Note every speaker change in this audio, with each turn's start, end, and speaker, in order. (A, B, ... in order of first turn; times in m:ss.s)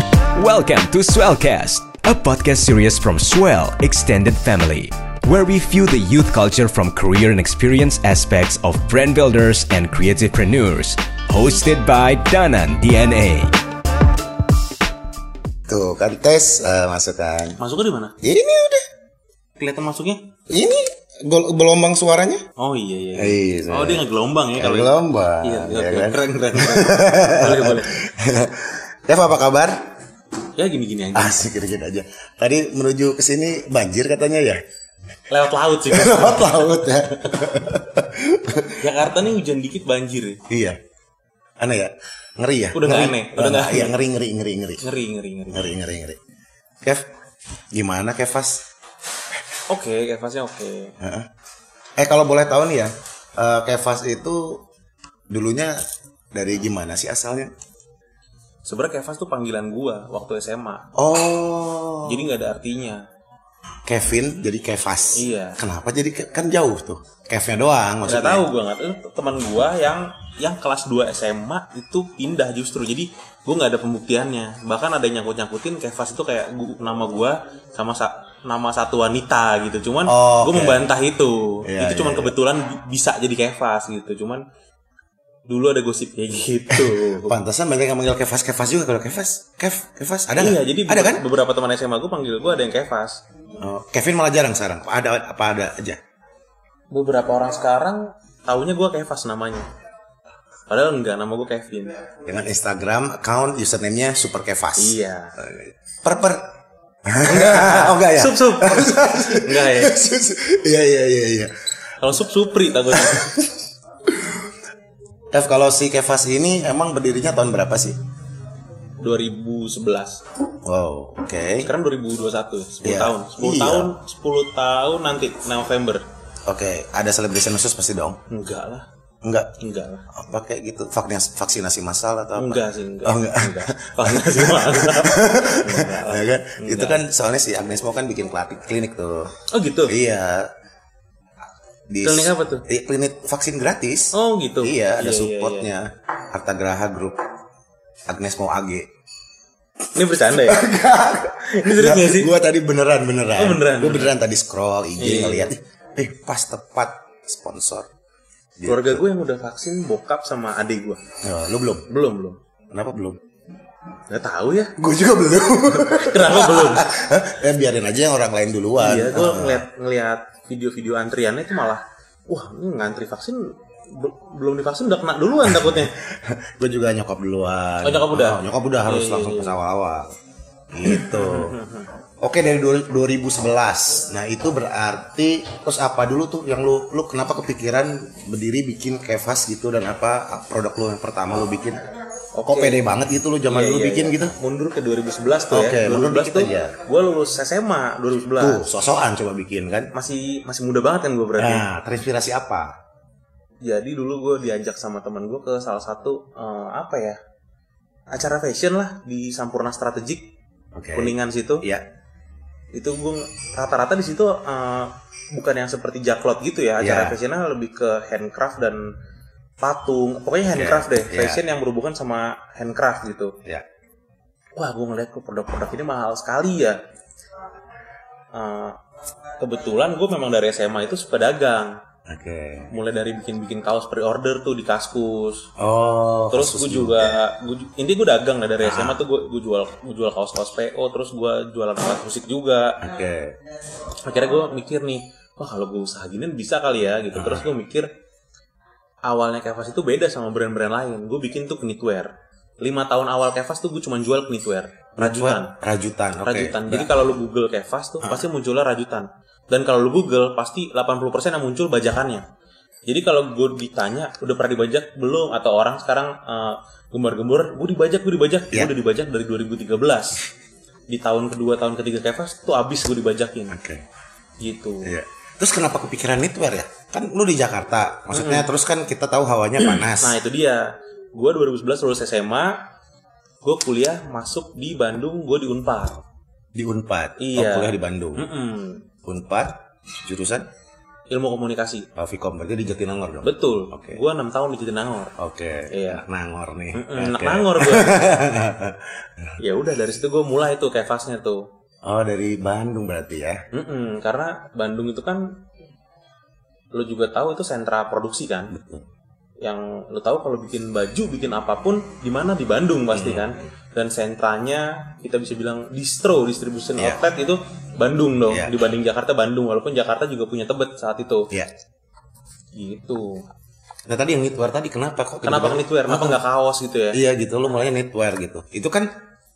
0:00.4-0:13.6 A
0:15.7-0:17.6 B
0:17.6-0:18.2 C
0:18.2-0:18.9 B
0:19.6-0:20.3 C
0:20.5-0:22.4 B
0:22.6-0:28.0 C
0:23.2-0:29.9 B
0:30.6-0:31.5 C
0:31.2-0:34.6 B
0:35.3-0:36.8 C
0:35.8-0:38.8 B
0:38.8-0:40.4 C
0:40.5-0:40.8 B
0:41.6-0:44.8 B
0:42.7-0:44.0 C
0:44.8-0:45.7 C
0:45.5-0:46.2 B
0:46.8-0:47.1 B
0:47.7-0:48.7 B
0:49.7-0:51.0 C
0:51.0-0:51.3 B
0:52.0-0:54.6 B
0:55.3-0:55.8 B
0:56.3-0:57.5 B
0:58.6-1:00.9 C
1:01.0-1:02.3 B
1:02.0-1:03.0 C
1:03.9-1:08.5 B
1:05.2-1:05.6 C
1:08.0-1:24.4 C
1:20.1-1:20.8 B
1:21.6-1:22.4 B
1:25.5-1:27.4 C
1:26.7-1:31.3 B
1:30.4-1:33.2 C
1:33.6-1:36.0 B
1:36.9-1:39.7 C
1:40.7-1:42.0 C
1:42.2-1:46.5 B
1:44.8-1:45.4 C
1:47.1-1:51.5 B
1:47.3-1:50.0 C
1:52.0-1:53.3 C
1:52.9-1:54.6 B
1:55.3-1:58.0 B
1:59.0-2:00.2 C
2:00.6-2:01.7 B
2:01.6-2:06.0 C
2:02.8-2:03.9 B
2:06.5-2:08.2 B
2:08.3-2:08.9 C
2:09.2-2:09.5 B
2:09.6-2:10.1 C
2:10.1-2:19.3 B
2:12.4-2:17.0 C
2:19.5-2:20.0 C
2:19.9-2:20.5 B
2:21.9-2:27.2 B
2:22.0-2:22.6 C
2:24.1-2:25.7 C
2:28.1-2:28.9 B
2:29.9-2:30.6 C
2:30.3-2:37.9 B
2:31.5-2:32.3 C
2:33.4-2:34.2 C
2:35.0-2:35.5 C
2:38.6-2:39.0 B
2:38.7-2:41.0 C
2:41.2-2:41.8 B
2:41.9-2:42.4 C
2:42.7-2:43.2 B
2:44.1-2:44.7 C
2:44.8-2:49.7 B
2:45.7-2:46.9 C
2:48.8-2:55.9 C
2:55.4-3:00.1 B
2:57.8-2:59.6 C
3:00.7-3:01.6 B
3:00.8-3:01.9 C
3:02.2-3:11.8 B
3:12.4-3:12.8 C
3:12.5-3:14.4 B
3:13.5-3:18.7 C
3:15.5-3:16.7 B
3:18.4-3:19.9 B
3:19.9-3:21.7 C
3:21.4-3:22.7 B
3:23.6-3:27.2 C
3:28.1-3:30.3 C
3:30.8-3:31.8 B
3:30.9-3:31.6 C
3:32.7-3:38.8 C
3:36.8-3:37.2 B
3:39.6-3:43.4 C
3:40.5-3:41.4 B
3:44.6-3:46.8 C
3:48.3-3:48.8 C
3:49.4-3:51.8 C
3:52.1-3:52.7 B
3:52.7-3:55.5 C
3:55.6-3:57.1 B
3:56.3-4:02.8 C
3:58.6-3:59.0 B
4:02.8-4:03.4 B
4:04.0-4:07.9 C
4:07.1-4:07.4 B
4:09.0-4:12.1 C
4:12.6-4:15.5 C
4:15.0-4:16.9 B
4:16.2-4:22.3 C
4:18.0-4:18.3 B
4:22.9-4:30.2 C
4:30.9-4:33.6 C
4:33.5-4:33.8 B
4:34.4-4:35.0 C
4:34.8-4:40.2 B
4:38.1-4:38.5 C
4:39.7-4:42.6 C
4:43.4-4:46.0 C
4:46.6-4:48.2 B
4:47.2-4:48.9 C
4:49.0-4:50.5 B
4:51.1-4:51.9 C
4:52.0-4:54.0 B
4:53.2-4:55.1 C
4:55.2-4:59.4 B
4:55.7-4:56.0 C
4:56.7-4:58.1 C
4:59.4-5:01.5 C
5:01.8-5:03.4 B
5:03.5-5:05.4 C
5:06.7-5:08.5 C
5:08.5-5:08.9 B
5:09.4-5:21.3 C
5:12.9-5:13.5 B
5:22.6-5:23.3 C
5:23.9-5:26.2 B
5:25.2-5:27.0 C
5:26.9-5:28.9 B